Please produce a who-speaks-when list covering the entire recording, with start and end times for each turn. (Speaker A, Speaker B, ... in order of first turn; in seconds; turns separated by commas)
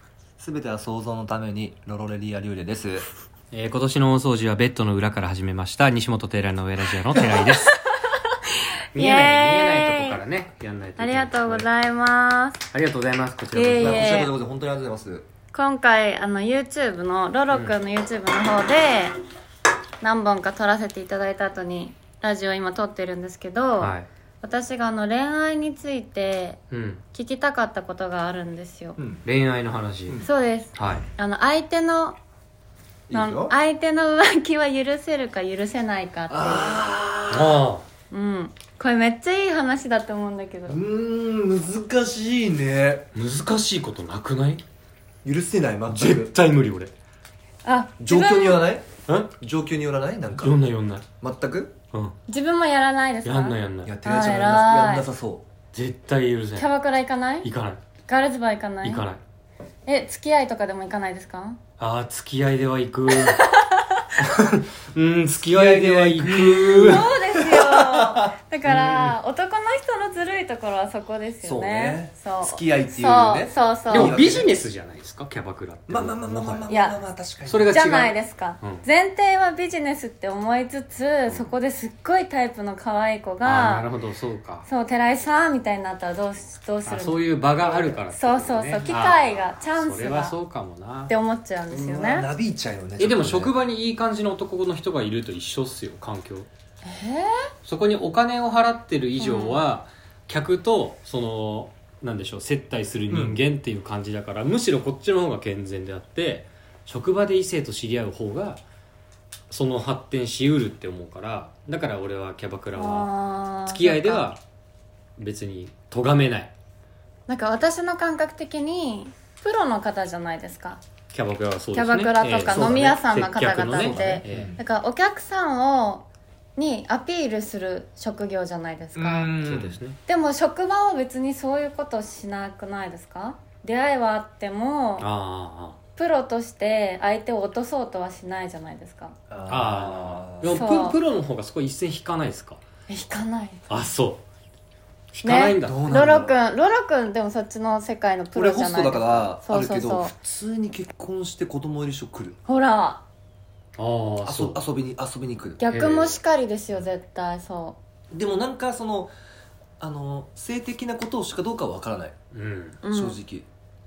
Speaker A: 0.4-3.1, Speaker B: 3.5-7.7, Speaker C: 7.2-10.2, Speaker B: 8.9-11.7, Speaker C: 11.0-12.7, Speaker B: 12.7-14.2, Speaker C: 13.5-14.3, Speaker A: 13.8-15.2, Speaker C: 15.5-19.1, Speaker C: 20.0-26.6, Speaker B: 23.8-24.1, Speaker B: 26.7-27.0, Speaker C: 27.1-29.0, Speaker A: 29.0-29.2, Speaker B: 29.2-31.1, Speaker C: 30.2-32.2, Speaker A: 33.1-33.5, Speaker C: 33.1-36.8, Speaker A: 36.3-37.6, Speaker B: 37.3-37.8, Speaker C: 38.1-40.8, Speaker A: 40.7-43.1, Speaker B: 43.1-44.6, Speaker A: 45.2-46.3, Speaker B: 45.9-46.9, Speaker C: 47.6-48.7, Speaker A: 48.0-50.5, Speaker B: 49.1-49.3, Speaker B: 50.4-51.0, Speaker A: 51.2-51.7, Speaker C: 52.3-55.1, Speaker B: 53.2-54.0, Speaker A: 53.8-55.4, Speaker B: 55.7-56.7, Speaker C: 56.5-57.5, Speaker B: 57.4-57.8, Speaker C: 58.1-59.0, Speaker B: 58.8-59.2, Speaker C: 59.9-61.6, Speaker B: 61.8-63.4, Speaker C: 63.1-64.0, Speaker B: 64.2-67.1, Speaker A: 65.4-69.1, Speaker C: 66.8-74.2, Speaker A: 71.4-74.5, Speaker B: 73.9-76.7, Speaker A: 75.9-77.8, Speaker C: 76.7-77.0, Speaker B: 77.5-78.8, Speaker C: 77.7-83.9, Speaker B: 83.4-84.7, Speaker C: 84.7-90.3, Speaker B: 86.8-91.1, Speaker C: 91.1-92.3, Speaker A: 91.7-93.5, Speaker B: 93.0-96.5, Speaker C: 96.8-97.5, Speaker B: 97.6-108.6, Speaker C: 99.2-99.6, Speaker A: 103.1-103.4, Speaker B: 109.5-113.1, Speaker C: 112.7-114.3, Speaker B: 113.7-114.4, Speaker B: 115.2-116.5, Speaker C: 117.3-120.8, Speaker B: 121.1-124.5, Speaker C: 121.7-129.3, Speaker A: 122.5-123.0, Speaker A: 123.7-124.6, Speaker A: 128.9-129.8, Speaker B: 129.3-130.0, Speaker C: 130.1-135.1, Speaker B: 135.0-135.8, Speaker C: 135.9-139.1, Speaker A: 139.3-140.7, Speaker B: 139.5-142.6, Speaker C: 140.5-141.0, Speaker C: 142.9-143.6, Speaker B: 143.7-144.2, Speaker B: 145.1-145.8, Speaker C: 145.2-150.1, Speaker A: 145.5-146.4, Speaker A: 148.3-152.4, Speaker C: 152.5-153.0, Speaker B: 153.8-154.6, Speaker A: 154.2-155.6, Speaker C: 155.6-157.8, Speaker B: 155.7-156.2, Speaker A: 158.1-159.1, Speaker A: 159.8-162.2, Speaker B: 162.3-162.8, Speaker C: 162.8-163.2, Speaker A: 162.9-163.4